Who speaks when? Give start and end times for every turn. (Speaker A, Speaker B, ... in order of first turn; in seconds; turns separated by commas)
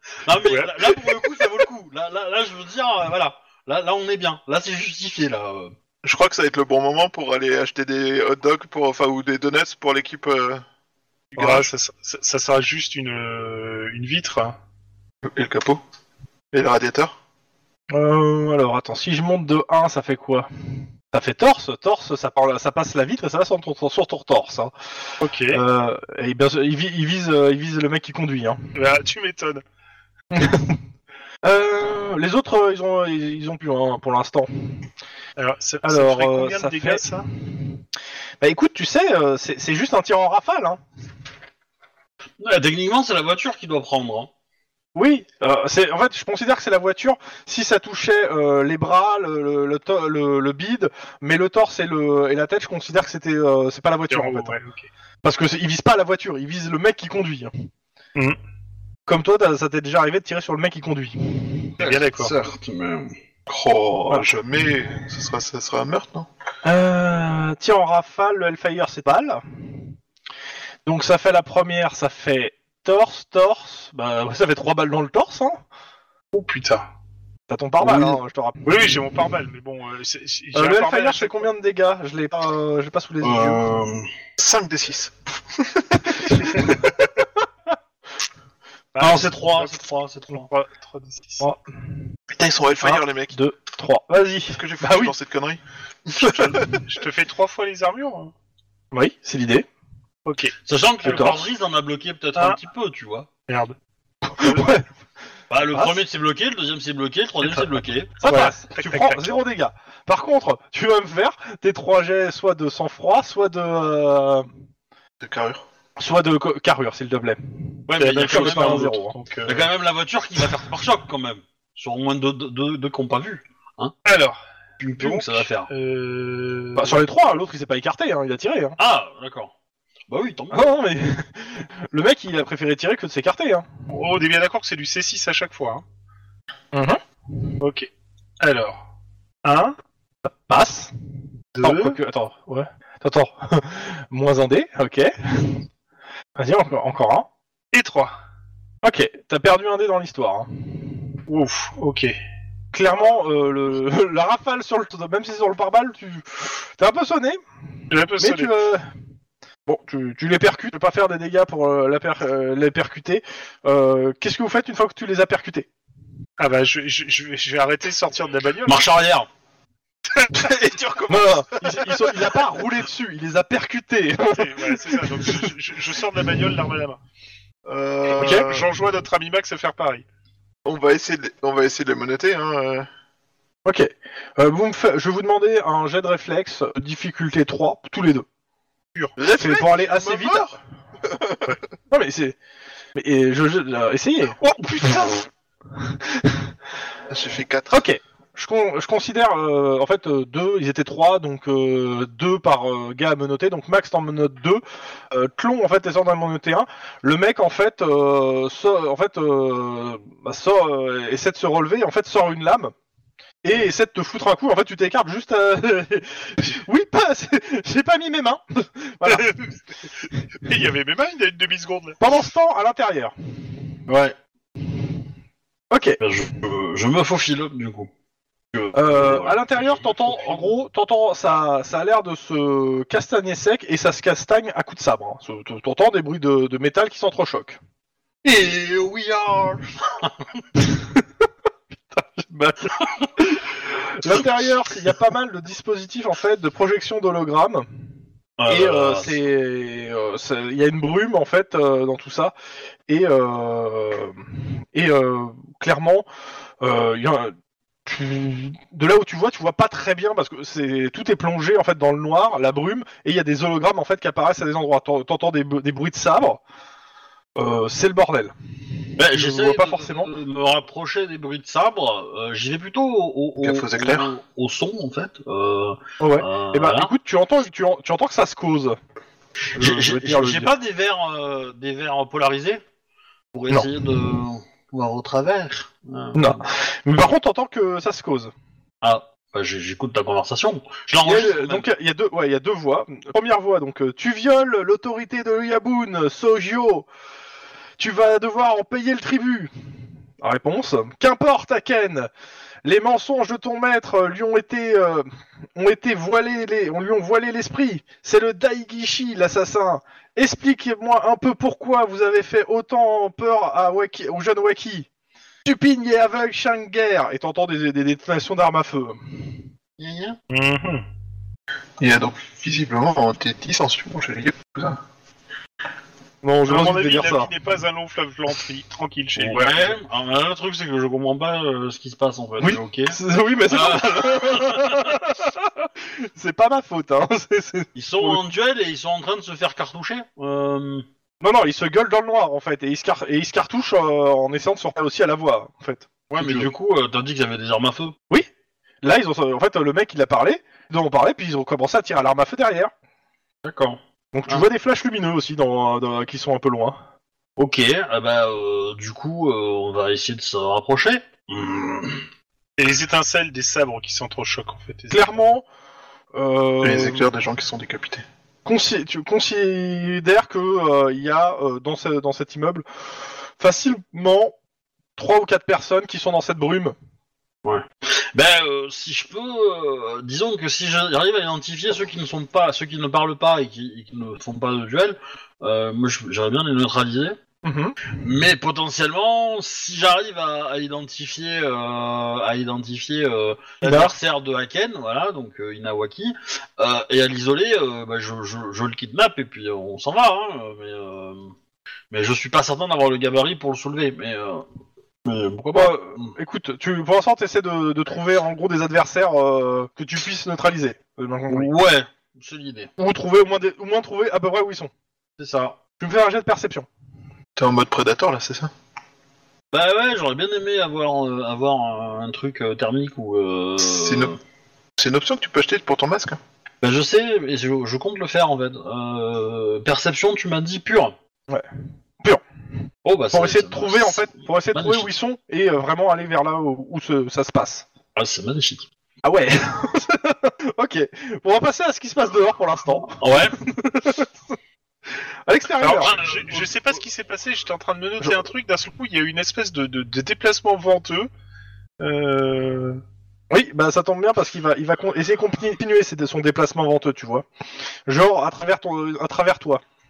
Speaker A: 0.2-5.8, Speaker B: 0.5-1.1, Speaker C: 6.0-10.6, Speaker B: 11.3-14.6, Speaker C: 11.4-11.7, Speaker C: 15.2-15.8, Speaker C: 16.5-17.1, Speaker D: 17.9-20.5, Speaker D: 21.1-24.7, Speaker B: 25.2-25.6, Speaker D: 25.5-28.6, Speaker B: 28.7-29.6, Speaker D: 30.3-30.8, Speaker D: 31.4-34.9, Speaker B: 35.4-37.3, Speaker D: 35.8-37.0, Speaker D: 38.4-40.8, Speaker A: 42.4-44.3, Speaker D: 45.0-54.6, Speaker B: 54.1-54.9, Speaker D: 55.2-57.5, Speaker D: 59.1-61.7, Speaker B: 61.8-62.3, Speaker A: 61.8-63.1, Speaker C: 63.5-66.3, Speaker D: 66.6-69.4, Speaker D: 70.9-75.6, Speaker B: 76.3-76.9, Speaker D: 77.5-78.6, Speaker A: 77.8-78.2, Speaker B: 78.7-81.5, Speaker D: 80.5-83.6, Speaker A: 83.2-84.1, Speaker C: 84.4-86.3, Speaker D: 86.2-86.9, Speaker B: 88.9-91.5, Speaker A: 89.0-90.5, Speaker C: 92.3-93.3, Speaker D: 92.8-95.1, Speaker C: 94.5-95.6, Speaker B: 96.2-98.3, Speaker D: 96.2-96.5, Speaker D: 98.9-99.7, Speaker B: 100.2-101.4, Speaker A: 100.6-103.3, Speaker D: 101.0-101.4, Speaker B: 103.5-103.8, Speaker D: 104.2-104.9, Speaker B: 104.4-104.7, Speaker A: 105.5-108.2, Speaker D: 105.7-106.0, Speaker D: 107.4-114.5, Speaker B: 108.2-109.4, Speaker C: 115.2-115.7, Speaker D: 116.0-119.2, Speaker A: 117.9-118.9, Speaker B: 118.0-119.7, Speaker A: 119.5-124.0, Speaker B: 124.0-124.4, Speaker A: 124.8-125.7, Speaker B: 125.0-127.0, Speaker D: 126.8-128.8, Speaker A: 128.8-129.5, Speaker A: 130.1-130.8, Speaker D: 130.5-133.7, Speaker B: 133.9-135.8, Speaker D: 136.7-137.0, Speaker B: 137.6-137.9, Speaker B: 138.4-138.8, Speaker B: 139.4-139.8, Speaker D: 140.2-140.9, Speaker B: 141.6-142.0, Speaker D: 141.6-145.6, Speaker D: 146.4-147.3, Speaker B: 147.7-148.1, Speaker D: 148.8-151.2, Speaker B: 151.3-152.2, Speaker D: 152.7-157.4, Speaker B: 157.9-158.5, Speaker D: 158.2-158.8, Speaker D: 159.7-165.7, Speaker B: 166.4-168.9, Speaker A: 168.7-169.3, Speaker C: 170.3-172.4, Speaker D: 171.1-175.5, Speaker B: 174.3-177.0, Speaker C: 177.7-178.7, Speaker B: 178.1-180.0, Speaker D: 178.2-178.5, Speaker C: 180.7-182.9, Speaker D: 183.7-188.3, Speaker C: 189.2-191.6, Speaker D: 189.3-190.6, Speaker D: 191.9-192.4, Speaker D: 192.9-195.2, Speaker C: 194.4-195.2, Speaker D: 195.7-196.5, Speaker C: 197.1-197.8, Speaker D: 197.7-212.7, Speaker D: 213.4-219.3, Speaker B: 219.1-222.0, Speaker D: 222.0-223.1, Speaker A: 223.9-224.2, Speaker D: 225.7-226.0, Speaker A: 226.0-227.9, Speaker A: 228.5-230.4, Speaker D: 228.7-237.6, Speaker A: 238.2-240.4, Speaker D: 240.6-241.1, Speaker D: 241.9-247.7, Speaker A: 242.8-243.1, Speaker A: 248.4-249.2, Speaker D: 248.5-252.3, Speaker D: 252.9-256.1, Speaker D: 256.6-257.4, Speaker D: 257.9-266.4, Speaker D: 267.4-268.3, Speaker A: 269.0-276.9, Speaker D: 269.0-270.1, Speaker C: 273.4-274.1, Speaker D: 276.0-278.8, Speaker A: 279.6-282.6, Speaker D: 279.6-280.5, Speaker A: 283.3-286.4, Speaker D: 286.1-288.3, Speaker A: 288.8-291.7, Speaker D: 291.0-296.9, Speaker D: 297.8-299.5, Speaker D: 300.2-302.1, Speaker D: 302.6-314.9, Speaker D: 315.4-319.4, Speaker A: 319.8-320.2, Speaker B: 320.3-320.8, Speaker C: 321.8-324.8, Speaker D: 326.2-327.3, Speaker B: 326.5-329.8, Speaker A: 329.2-334.9, Speaker D: 332.4-338.2, Speaker A: 337.8-340.9, Speaker D: 341.2-346.5, Speaker A: 346.1-348.0, Speaker D: 348.8-352.7, Speaker A: 353.4-354.4, Speaker D: 354.1-356.8, Speaker A: 357.4-362.1, Speaker B: 362.6-365.2, Speaker D: 364.9-365.5, Speaker D: 366.1-367.1, Speaker C: 366.6-368.1, Speaker D: 368.4-372.6, Speaker D: 373.4-374.4, Speaker D: 375.0-376.8, Speaker A: 377.4-387.2, Speaker D: 387.4-387.8, Speaker A: 387.9-401.4, Speaker D: 393.6-393.9, Speaker A: 401.9-404.4, Speaker A: 405.1-406.1, Speaker D: 405.5-411.5, Speaker A: 411.3-412.7, Speaker D: 412.8-414.7, Speaker A: 415.2-415.6, Speaker D: 415.8-416.7, Speaker C: 417.4-418.5, Speaker A: 419.5-424.2, Speaker C: 423.6-424.1, Speaker C: 424.8-426.2, Speaker A: 426.6-431.0, Speaker A: 432.9-434.9, Speaker D: 433.1-437.7, Speaker A: 438.0-438.7, Speaker D: 439.0-444.3, Speaker A: 442.9-443.4, Speaker D: 445.3-446.1, Speaker B: 445.6-451.1, Speaker A: 445.8-446.4, Speaker B: 451.8-452.8, Speaker D: 453.3-457.3, Speaker D: 457.9-459.6